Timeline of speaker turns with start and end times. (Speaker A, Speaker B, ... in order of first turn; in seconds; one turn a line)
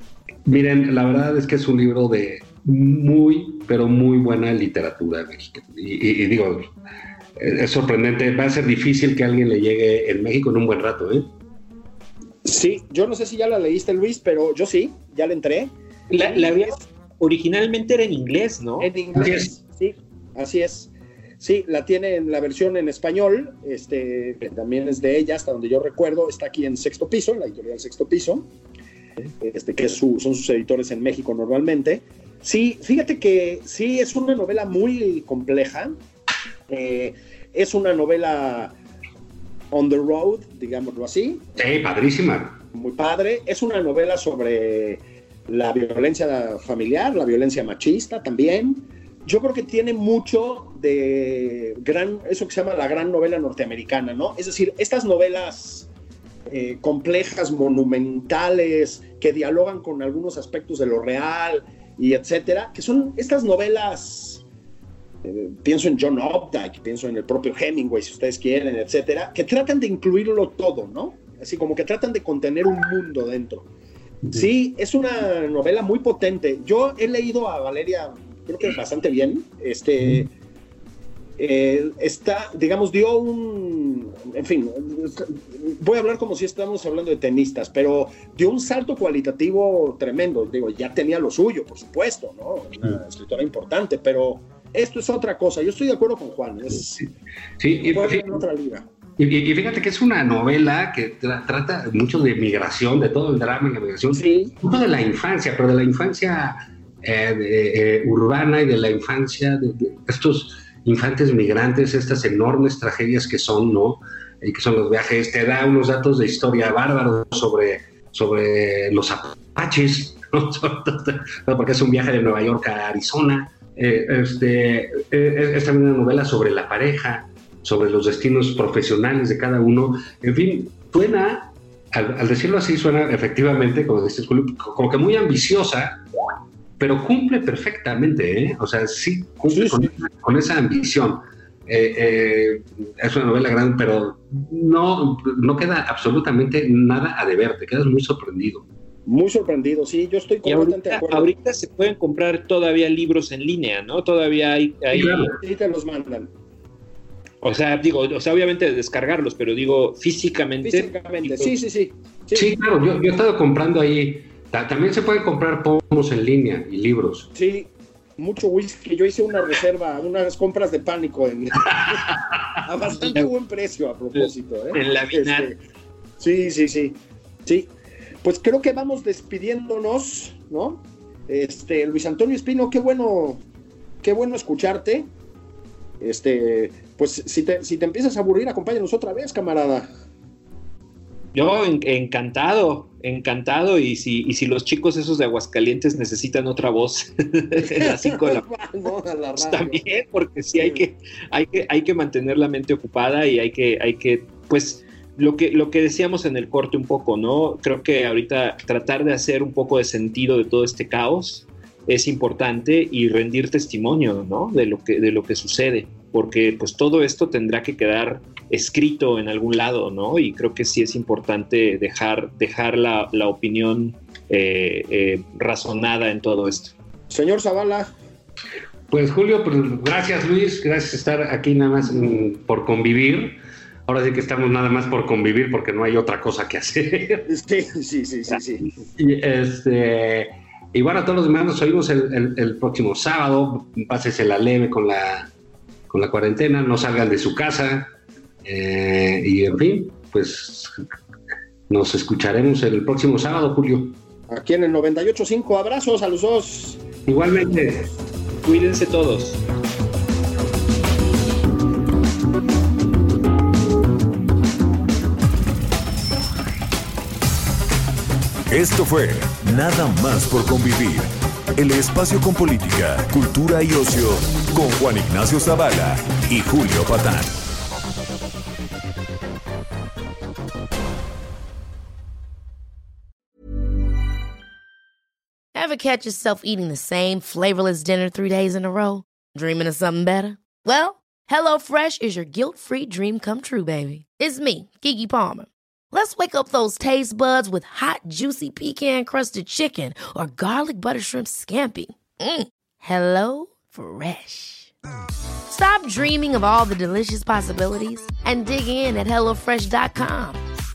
Speaker A: 0.4-6.7
Speaker A: 7.4-11.3
Speaker B: 12.4-16.8
Speaker C: 16.1-18.9
Speaker B: 18.8-28.5
Speaker A: 19.1-19.5
Speaker B: 29.4-36.0
Speaker B: 36.7-38.7
Speaker B: 39.7-41.5
Speaker A: 41.6-42.6
Speaker B: 42.7-55.9
Speaker B: 56.5-64.4
Speaker B: 65.2-73.7
Speaker B: 74.3-80.3
Speaker B: 81.4-97.0
Speaker A: 97.6-98.4
Speaker B: 97.8-98.9
Speaker A: 99.2-136.0
Speaker B: 104.1-104.6
Speaker A: 136.8-148.7
Speaker B: 139.5-139.9
Speaker B: 149.1-151.3
Speaker C: 150.4-155.3
Speaker A: 154.9-155.4
Speaker B: 155.4-156.3
Speaker C: 157.4-161.6
Speaker B: 160.6-162.5
Speaker A: 162.3-167.3
Speaker B: 167.3-172.1
Speaker A: 171.7-172.2
Speaker B: 172.6-175.6
Speaker C: 172.9-173.3
Speaker C: 174.1-175.5
Speaker B: 176.2-177.7
Speaker B: 178.2-183.4
Speaker B: 184.0-185.1
Speaker B: 186.0-189.9
Speaker C: 191.3-198.5
Speaker B: 197.6-199.9
Speaker C: 199.4-226.7
Speaker B: 227.1-227.9
Speaker A: 228.9-237.3
Speaker B: 237.3-238.7
Speaker A: 238.9-245.3
Speaker A: 245.9-247.9
Speaker A: 248.4-250.7
Speaker A: 251.7-254.0
Speaker B: 254.3-256.9
Speaker A: 257.1-257.9
Speaker C: 258.4-259.4
Speaker D: 268.5-277.3
Speaker E: 285.5-304.7
Speaker E: 305.5-310.4